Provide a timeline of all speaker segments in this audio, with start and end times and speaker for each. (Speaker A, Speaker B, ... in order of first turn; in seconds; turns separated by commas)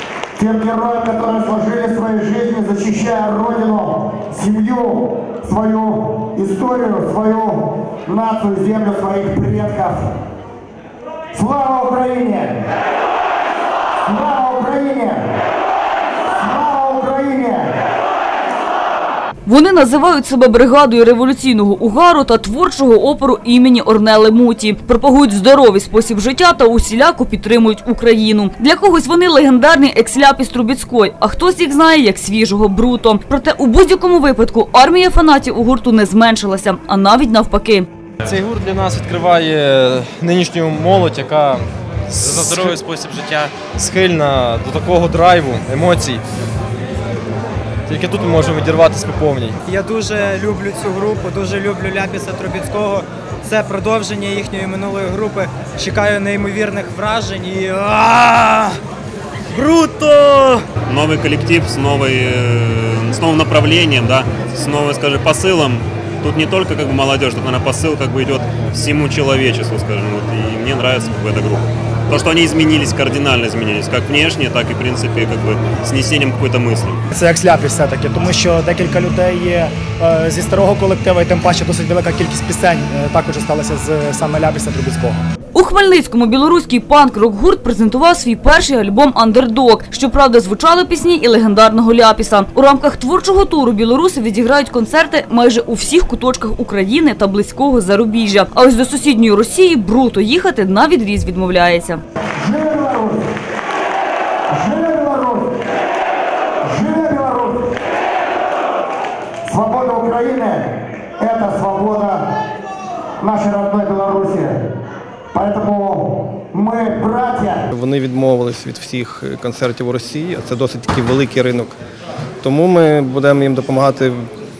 Speaker A: 0.3-10.1, Speaker A: 11.3-12.6, Speaker A: 14.0-15.2, Speaker A: 16.3-17.7, Speaker B: 19.4-37.9, Speaker C: 38.2-42.8, Speaker C: 43.6-46.2, Speaker C: 47.9-49.6, Speaker D: 49.7-58.8, Speaker D: 59.5-60.6, Speaker E: 60.9-77.0, Speaker F: 77.1-85.2, Speaker B: 85.5-102.0, Speaker A: 102.4-103.2, Speaker A: 104.5-105.5, Speaker A: 106.6-107.7, Speaker A: 109.4-112.2, Speaker A: 113.2-114.6, Speaker A: 115.3-117.7, Speaker G: 117.7-121.8, Speaker G: 122.4-124.3